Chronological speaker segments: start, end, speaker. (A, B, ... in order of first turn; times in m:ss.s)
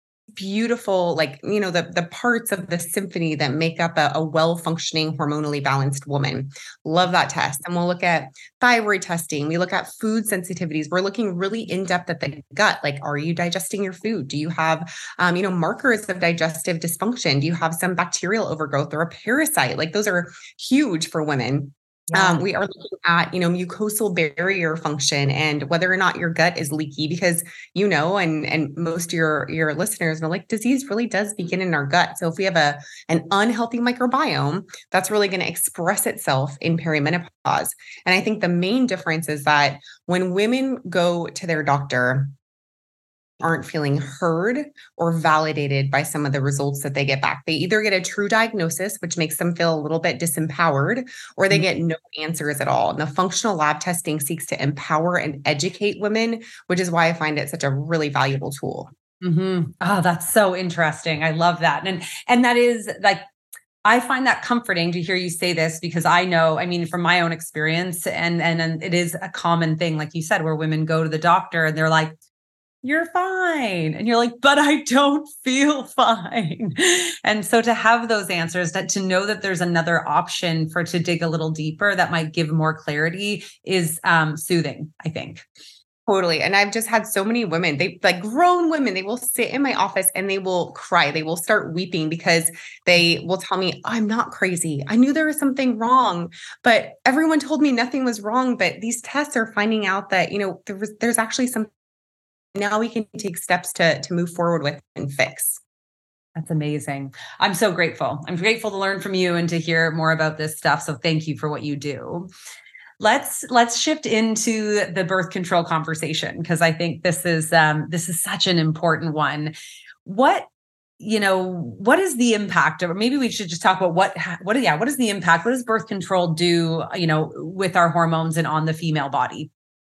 0:00.4-0:42.3 A
0:22.1-0:22.4 B
0:43.4-0:58.9 A
0:59.2-1:03.2 B
1:03.8-1:12.2 B
1:12.8-1:25.4 B
1:26.1-1:41.7 A
1:42.6-1:45.6 A
1:46.4-1:52.3 B
1:53.0-1:59.5 B
2:00.0-2:00.5 B
2:01.0-2:09.5 B